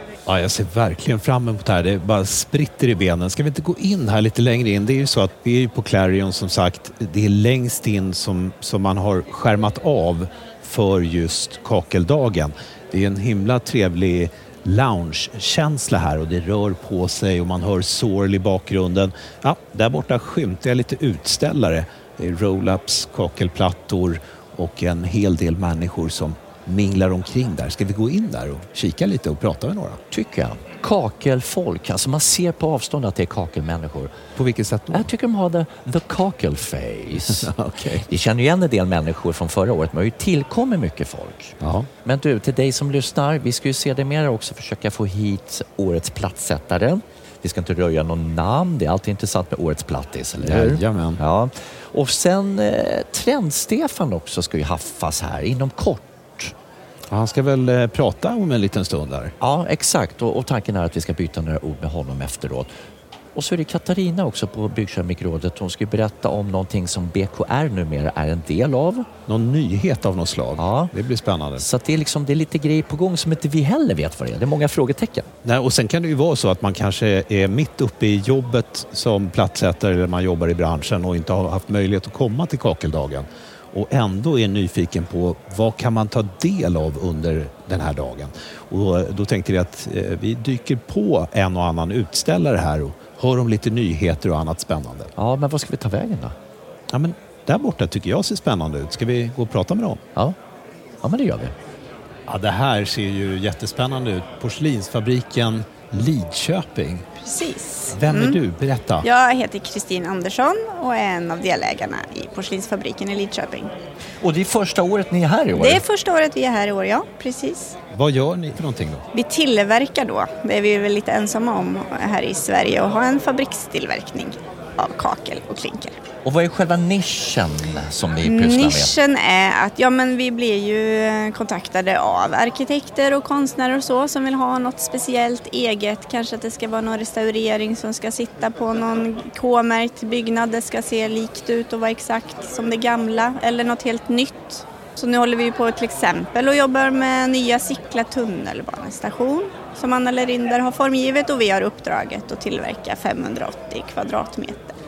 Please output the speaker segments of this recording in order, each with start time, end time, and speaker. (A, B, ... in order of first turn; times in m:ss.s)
0:00.3-0:30.0 A
0:30.1-0:34.2 B
0:34.4-0:35.1 A
0:34.9-0:37.5 B
0:37.3-0:38.1 A
0:38.1-0:56.5 B
0:41.6-0:41.9 A
0:50.4-0:51.2 A
0:57.1-0:59.3 A
0:59.4-1:02.7 B
1:03.4-1:09.1 B
1:09.3-1:11.6 A
1:10.6-1:10.9 B
1:11.6-1:15.3 B
1:15.4-1:35.1 A
1:35.2-1:36.4 B
1:36.9-1:40.0 A
1:41.0-1:41.5 B
1:42.3-1:47.1 A
1:47.3-1:48.4 C
1:47.9-1:49.0 A
1:49.0-1:53.7 C
1:54.2-1:55.8 B
1:55.6-1:57.8 C
1:57.9-1:59.0 A
1:59.1-2:06.0 C
2:06.2-2:08.9 B
2:08.2-2:34.8 C